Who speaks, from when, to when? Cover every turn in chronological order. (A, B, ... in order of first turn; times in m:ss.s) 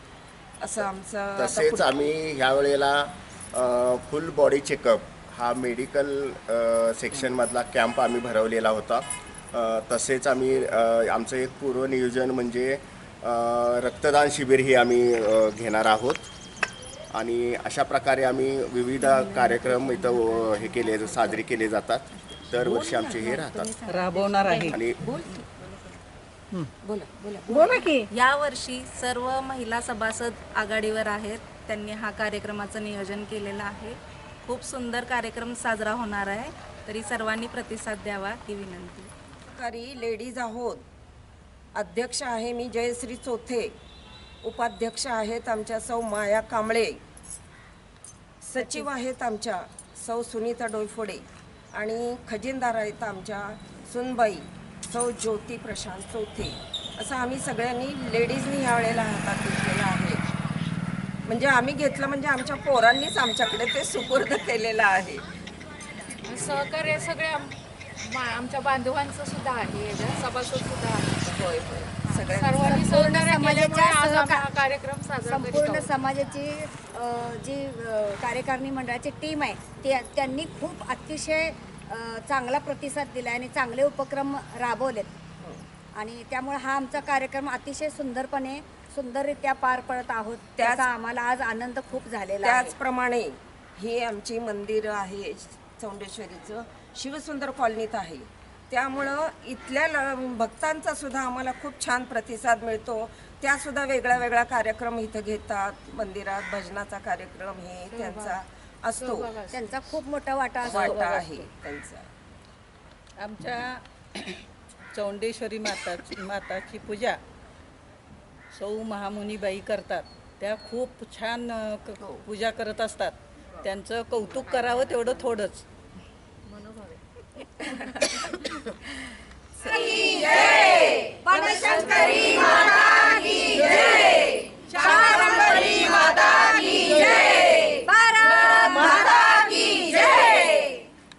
0:00.6-0:02.1 A
0:01.4-0:16.3 B
0:17.1-0:23.7 B
0:22.9-0:23.4 C
0:23.8-0:24.8 D
0:24.7-0:25.0 B
0:26.8-0:27.9 A
0:27.5-0:28.0 D
0:28.1-0:39.1 C
0:39.5-0:40.8 A
0:41.7-0:43.7 A
0:44.4-0:47.0 A
0:48.4-1:00.2 A
1:01.2-1:05.2 A
1:06.2-1:11.2 E
1:11.2-1:12.8 A
1:12.1-1:16.0 E
1:12.7-1:14.4 F
1:15.2-1:25.1 F
1:26.0-1:32.7 F
1:30.6-1:30.9 A
1:32.4-1:49.3 A
1:47.9-1:48.4 E
1:49.0-1:50.0 E
1:49.5-1:51.4 F
1:50.6-1:52.1 A
1:53.2-1:54.4 D
1:54.9-1:57.2 D
1:58.5-2:05.6 D
2:09.9-2:12.0 F
2:13.3-2:14.3 F
2:14.9-2:20.6 F
2:16.2-2:16.5 E